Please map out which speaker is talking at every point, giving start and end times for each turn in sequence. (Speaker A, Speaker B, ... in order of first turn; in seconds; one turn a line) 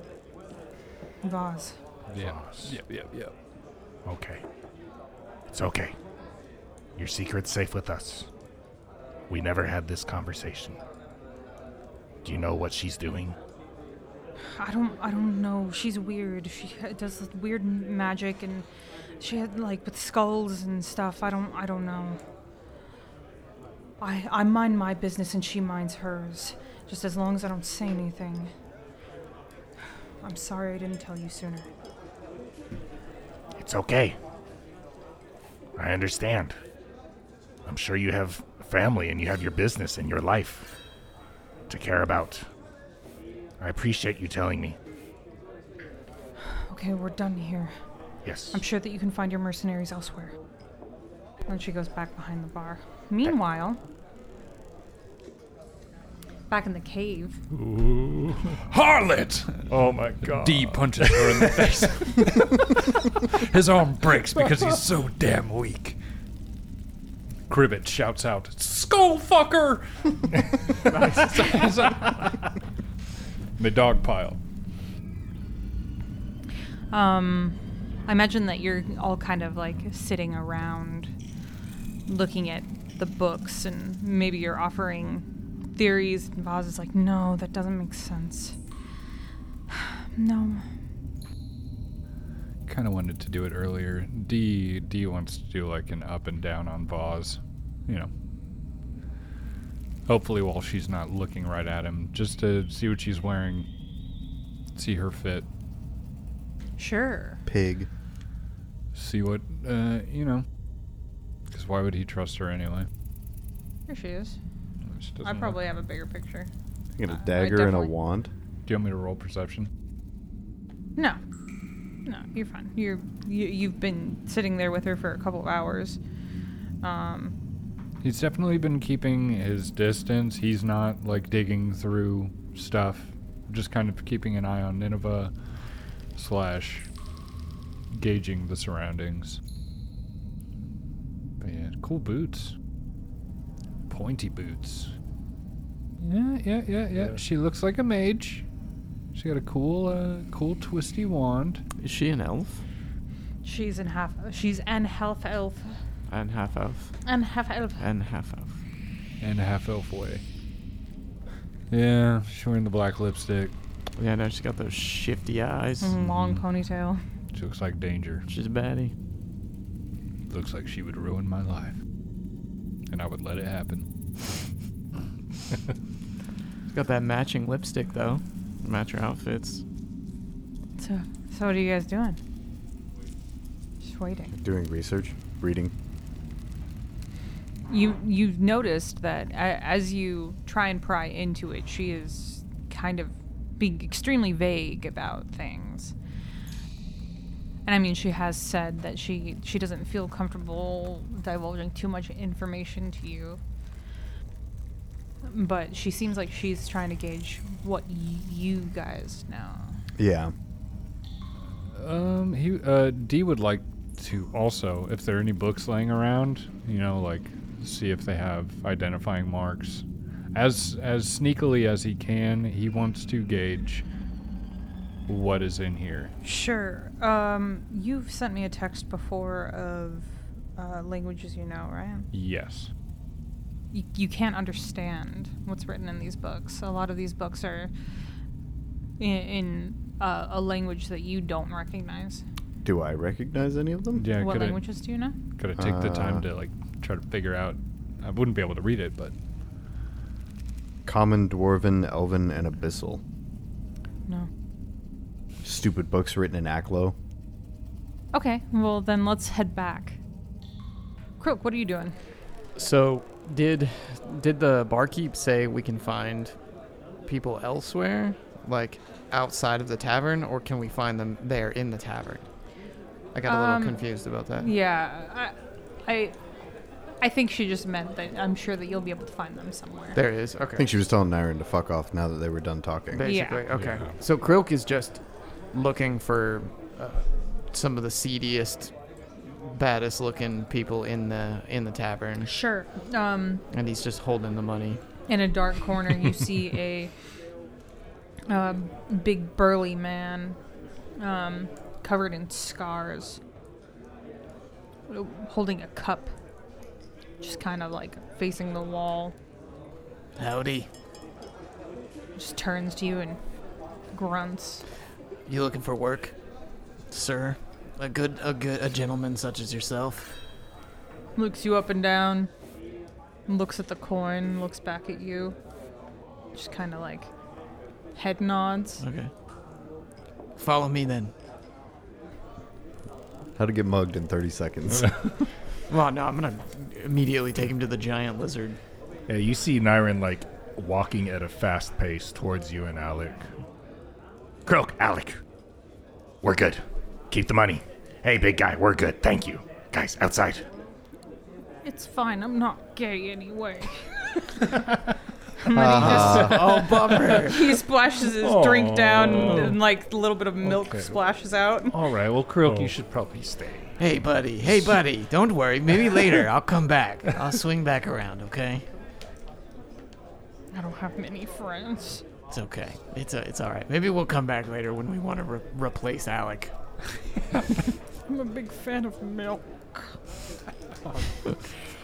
Speaker A: 1.2-1.8
Speaker B: 2.1-3.3
Speaker C: 2.1-2.8
Speaker C: 4.1-4.4
Speaker C: 5.5-6.0
Speaker C: 7.0-8.3
Speaker C: 9.3-10.8
Speaker C: 12.2-13.4
Speaker A: 14.5-18.7
Speaker A: 19.2-22.2
Speaker A: 24.0-28.5
Speaker A: 30.2-31.7
Speaker C: 33.6-34.2
Speaker C: 35.8-36.6
Speaker C: 37.7-40.8
Speaker C: 41.7-42.5
Speaker C: 43.6-44.8
Speaker A: 46.7-47.7
Speaker C: 48.2-48.6
Speaker A: 48.5-50.3
Speaker A: 51.5-53.8
Speaker A: 56.5-57.4
Speaker C: 57.6-58.6
Speaker B: 58.5-59.6
Speaker C: 59.7-61.9
Speaker B: 60.3-66.0
Speaker B: 67.5-72.5
Speaker D: 70.9-71.3
Speaker B: 73.6-74.4
Speaker A: 76.9-81.1
Speaker A: 82.1-88.6
Speaker A: 89.7-90.7
Speaker B: 92.7-98.1
Speaker B: 100.1-103.7
Speaker B: 104.8-105.5
Speaker A: 106.8-107.4
Speaker E: 107.5-107.9
Speaker B: 108.9-110.5
Speaker B: 111.5-112.9
Speaker A: 113.9-114.4
Speaker B: 114.9-115.6
Speaker A: 115.2-116.5
Speaker E: 117.0-118.3
Speaker A: 117.1-117.9
Speaker B: 118.7-119.7
Speaker A: 122.0-126.0
Speaker A: 126.8-127.3
Speaker B: 128.0-135.3
Speaker B: 136.2-136.9
Speaker B: 137.9-139.4
Speaker B: 141.4-142.6
Speaker B: 143.9-144.9
Speaker B: 146.0-148.4
Speaker B: 149.1-151.6
Speaker D: 151.8-152.6
Speaker A: 153.4-155.8
Speaker D: 156.1-156.9
Speaker A: 157.1-157.8
Speaker D: 157.8-158.6
Speaker B: 159.2-160.2
Speaker B: 161.7-163.6
Speaker D: 164.0-165.9
Speaker A: 165.8-167.0
Speaker B: 166.0-166.4
Speaker B: 167.3-168.3
Speaker D: 168.3-168.9
Speaker B: 170.3-171.8
Speaker B: 172.9-173.9
Speaker D: 176.7-179.6
Speaker A: 180.8-182.2
Speaker A: 183.8-184.3
Speaker E: 184.4-185.7
Speaker A: 187.7-195.9
Speaker A: 197.7-203.4
Speaker A: 205.2-209.8
Speaker E: 210.0-210.3
Speaker B: 211.7-223.8
Speaker B: 225.1-226.1
Speaker A: 226.2-232.1
Speaker B: 232.1-232.7
Speaker A: 233.7-237.7
Speaker A: 239.0-242.2
Speaker E: 242.6-244.1
Speaker B: 243.9-244.7
Speaker A: 244.2-245.2
Speaker B: 245.4-249.1
Speaker E: 245.6-246.2
Speaker E: 250.8-253.0
Speaker E: 255.4-256.9
Speaker A: 258.1-260.0
Speaker A: 261.2-262.0
Speaker D: 262.6-266.4
Speaker D: 267.1-272.3
Speaker D: 273.1-274.5
Speaker A: 273.3-275.3
Speaker A: 275.9-276.2
Speaker A: 277.0-280.0
Speaker D: 279.9-280.7
Speaker E: 280.6-283.1
Speaker D: 282.9-285.0
Speaker A: 283.0-283.4
Speaker C: 283.5-283.9
Speaker D: 285.5-288.7
Speaker D: 289.2-292.3
Speaker A: 292.2-293.4
Speaker D: 293.5-294.8
Speaker A: 295.1-296.9
Speaker A: 298.3-300.4
Speaker A: 301.0-303.2
Speaker A: 304.9-306.1
Speaker A: 307.2-309.1
Speaker D: 310.2-310.7
Speaker A: 312.1-313.2
Speaker A: 313.9-314.6
Speaker D: 315.3-316.1
Speaker D: 316.9-320.2
Speaker A: 321.2-322.3
Speaker A: 323.3-325.4
Speaker A: 326.3-327.1
Speaker A: 328.0-328.8
Speaker D: 328.8-329.1
Speaker D: 330.4-331.1
Speaker E: 333.4-335.0
Speaker D: 335.7-338.6
Speaker C: 339.1-343.3
Speaker C: 344.5-345.2
Speaker C: 346.2-350.4
Speaker A: 351.6-353.9
Speaker A: 355.4-361.8
Speaker E: 355.5-356.5
Speaker D: 355.8-357.6
Speaker C: 358.2-359.6
Speaker D: 359.2-359.5
Speaker C: 360.5-360.9
Speaker C: 361.7-363.7
Speaker D: 363.8-368.6
Speaker A: 370.5-372.0
Speaker D: 372.3-376.5
Speaker A: 378.1-380.0